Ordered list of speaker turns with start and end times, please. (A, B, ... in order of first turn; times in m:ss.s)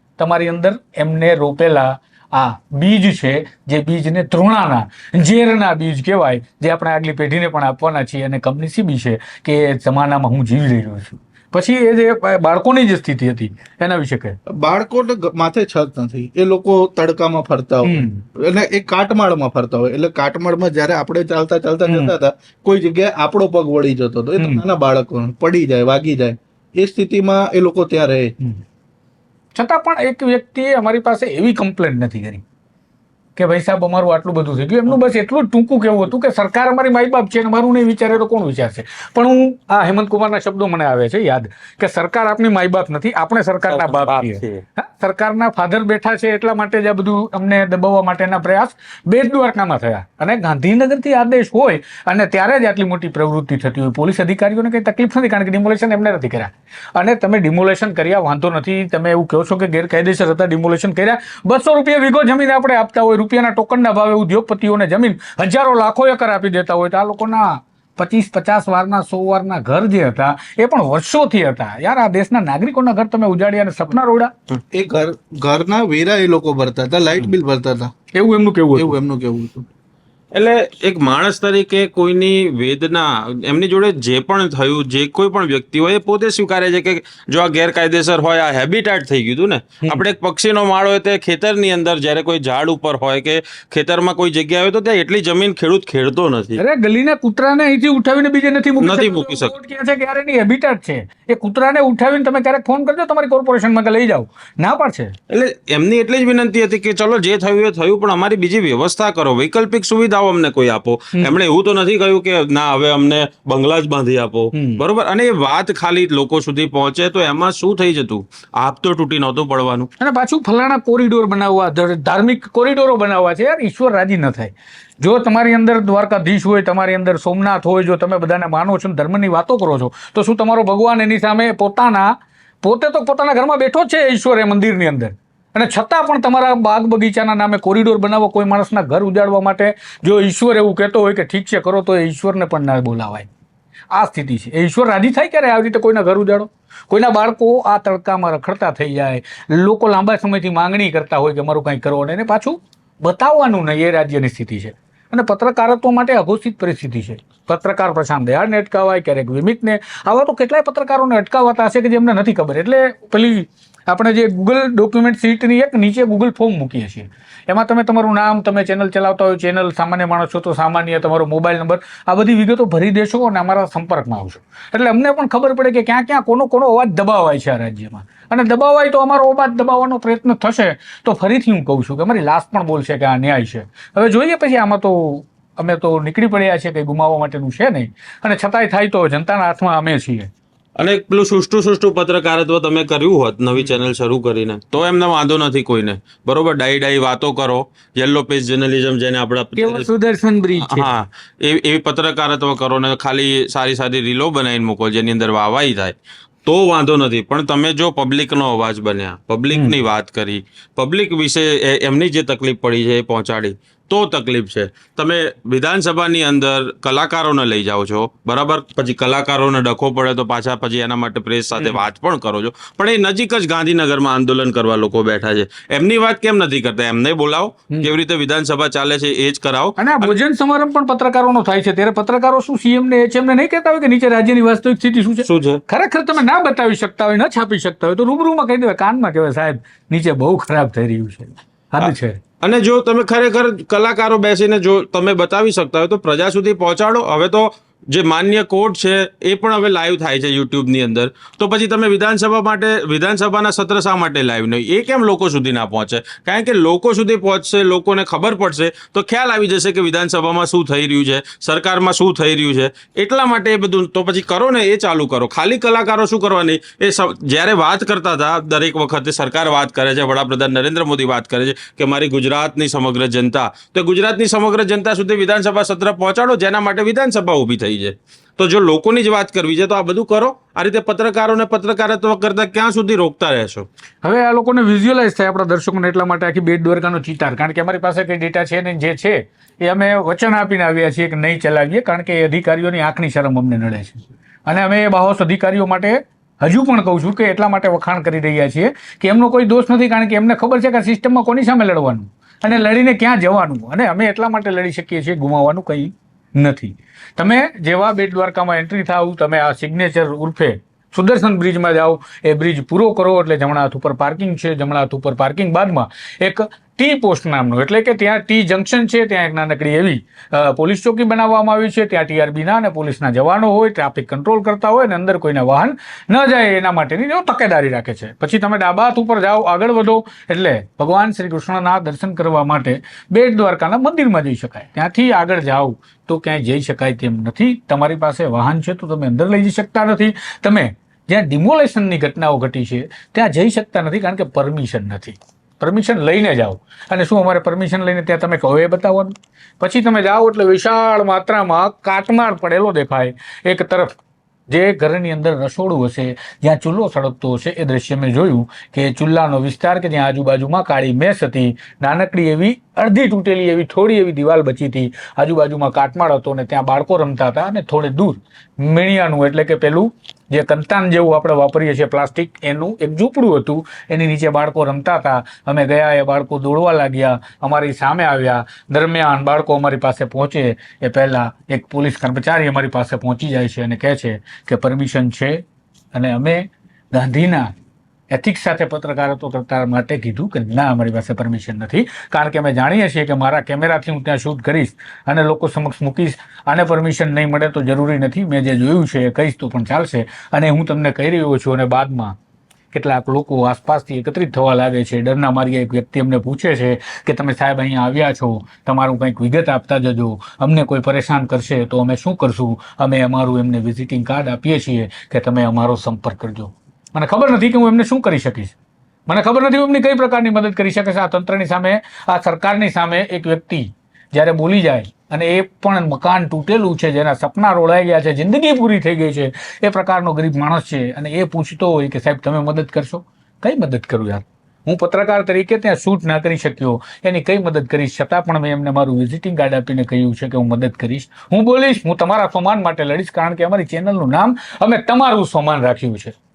0:00.2-0:14.4 A
0:14.5-0:28.3 B
0:17.8-0:18.2 A
0:21.9-0:22.1 A
0:24.4-0:24.6 A
0:29.6-0:32.4 A
0:33.4-1:14.3 A
0:43.7-0:44.6 C
1:14.7-1:17.9 B
1:18.2-1:19.0 A
1:18.8-1:19.7 B
1:20.3-1:36.6 C
1:36.6-1:45.2 A
1:38.8-1:39.5 C
1:45.3-1:59.9 C
1:54.5-1:54.8 A
2:00.0-2:12.1 A
2:12.6-2:23.3 A
2:23.9-3:10.3 A
3:10.8-3:19.9 C
3:19.6-3:20.9 A
3:20.6-3:50.2 C
3:29.5-3:29.8 A
3:41.6-3:41.8 A
3:49.8-4:02.2 A
3:55.2-3:55.6 C
4:01.8-4:43.7 C
4:44.0-5:53.9 A
5:54.5-6:27.5 A
6:28.1-6:42.2 A
6:42.7-6:58.6 A
6:59.1-7:26.2 A